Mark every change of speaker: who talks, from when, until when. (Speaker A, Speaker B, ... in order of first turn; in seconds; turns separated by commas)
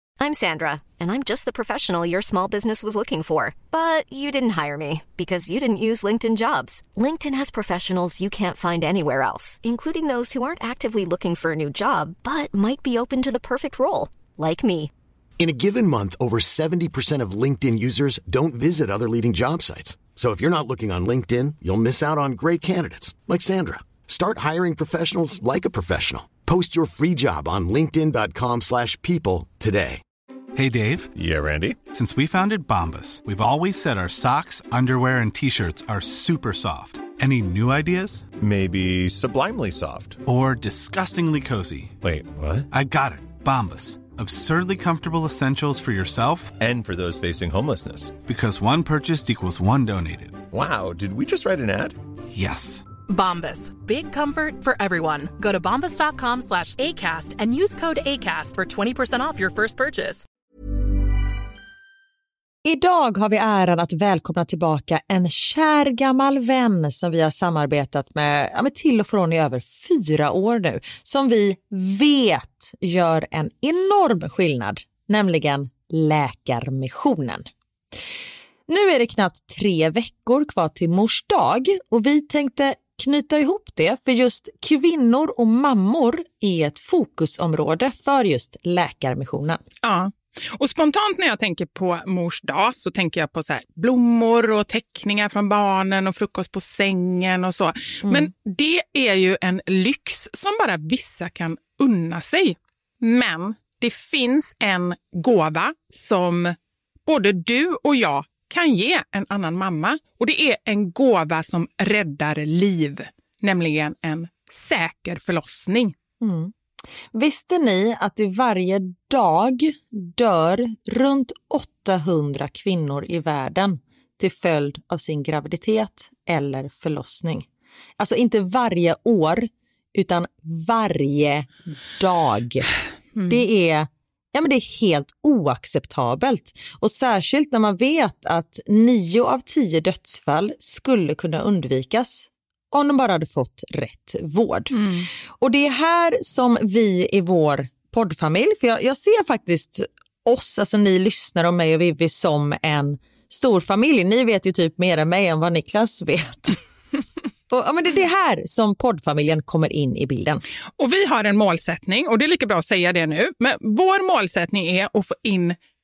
Speaker A: 0.2-14.9, Speaker B: 15.4-30.0, Speaker C: 30.6-31.1, Speaker D: 31.1-31.8, Speaker C: 31.9-38.3, Speaker D: 38.4-40.2, Speaker C: 40.2-41.9, Speaker D: 42.0-42.7, Speaker C: 42.7-46.5, Speaker D: 46.5-48.2, Speaker C: 48.2-50.4, Speaker D: 50.5-52.0, Speaker C: 52.3-52.9, Speaker E: 53.1-60.2, Speaker F: 62.6-77.5, Speaker F: 78.7-89.6, Speaker G: 89.8-106.5, Speaker G: 107.1-115.9, Speaker F: 116.2-116.5, Speaker F: 117.1-127.5, Speaker F: 128.0-132.7, Speaker F: 133.3-144.8, Speaker G: 144.7-145.1, Speaker F: 145.4-156.6, Speaker F: 157.5-160.4, Speaker G: 160.8-165.6